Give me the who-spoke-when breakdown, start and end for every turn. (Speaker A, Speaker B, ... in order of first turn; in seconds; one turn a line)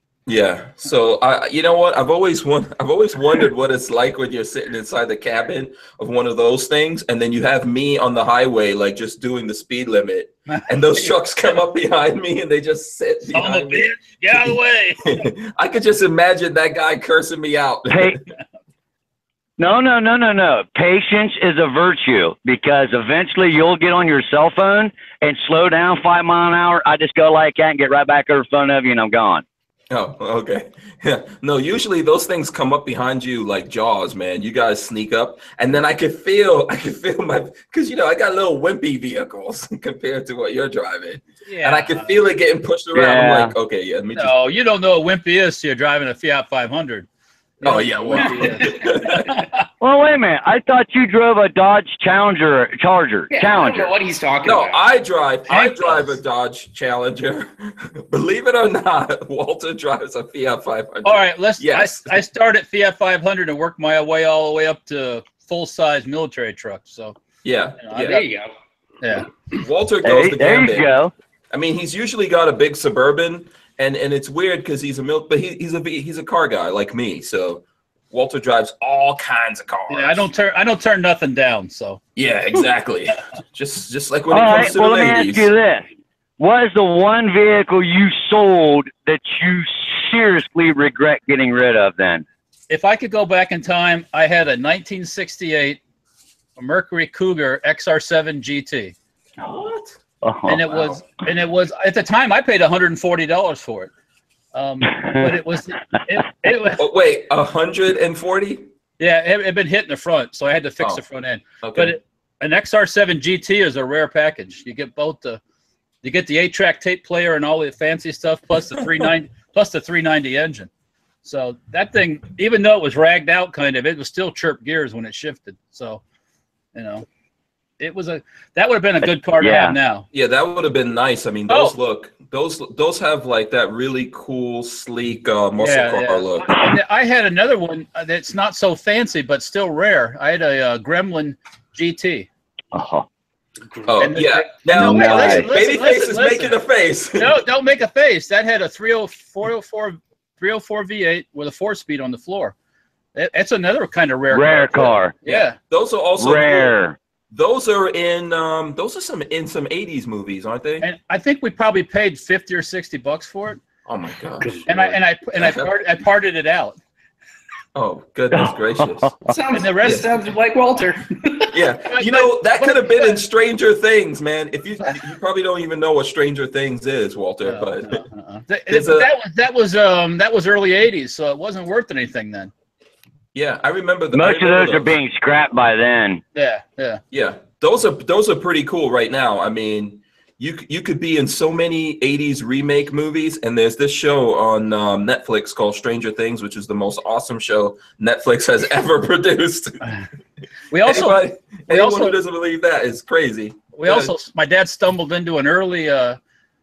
Speaker A: 0.3-14.5
Speaker B: 13.3-15.2
Speaker A: 15.1-18.2
Speaker C: 17.9-18.2
Speaker C: 19.6-29.4
Speaker A: 29.9-44.5
Speaker B: 41.5-42.2
Speaker C: 42.9-43.5
Speaker B: 44.2-47.1
Speaker B: 47.6-49.5
Speaker A: 47.6-49.5
Speaker C: 49.8-53.9
Speaker D: 53.3-54.8
Speaker A: 54.4-62.2
Speaker B: 55.5-56.1
Speaker B: 61.0-67.2
Speaker A: 67.4-68.2
Speaker B: 67.8-68.2
Speaker D: 68.0-68.5
Speaker B: 69.0-69.3
Speaker A: 69.5-70.9
Speaker C: 70.0-71.1
Speaker A: 71.5-80.3
Speaker B: 79.9-82.0
Speaker A: 82.2-85.5
Speaker C: 84.3-85.8
Speaker C: 86.4-92.2
Speaker B: 92.7-95.8
Speaker B: 96.6-98.9
Speaker A: 99.4-100.0
Speaker C: 100.2-100.6
Speaker B: 100.5-103.9
Speaker A: 100.7-101.0
Speaker B: 104.5-106.8
Speaker A: 106.8-108.7
Speaker B: 109.0-115.4
Speaker A: 111.6-111.9
Speaker B: 116.0-120.7
Speaker B: 121.2-126.0
Speaker B: 126.7-127.1
Speaker B: 127.8-130.1
Speaker C: 129.4-129.8
Speaker A: 130.1-136.7
Speaker B: 131.5-131.8
Speaker B: 135.6-142.3
Speaker C: 142.7-143.1
Speaker D: 143.7-144.1
Speaker A: 143.9-147.4
Speaker B: 144.0-146.6
Speaker C: 144.8-145.5
Speaker B: 147.2-152.5
Speaker B: 153.2-155.6
Speaker C: 154.3-155.1
Speaker A: 155.2-156.7
Speaker C: 156.2-157.0
Speaker A: 157.3-160.9
Speaker B: 160.8-163.6
Speaker A: 163.9-165.7
Speaker D: 164.4-164.8
Speaker B: 164.7-166.8
Speaker A: 167.8-169.1
Speaker C: 168.8-169.1
Speaker D: 169.2-171.5
Speaker B: 169.5-170.0
Speaker A: 169.8-170.1
Speaker A: 171.5-178.0
Speaker B: 171.9-173.2
Speaker B: 177.4-182.5
Speaker A: 178.7-179.1
Speaker A: 183.3-184.9
Speaker C: 184.1-186.2
Speaker B: 186.3-187.0
Speaker A: 187.1-199.8
Speaker B: 200.7-202.2
Speaker A: 200.8-204.1
Speaker B: 203.8-206.2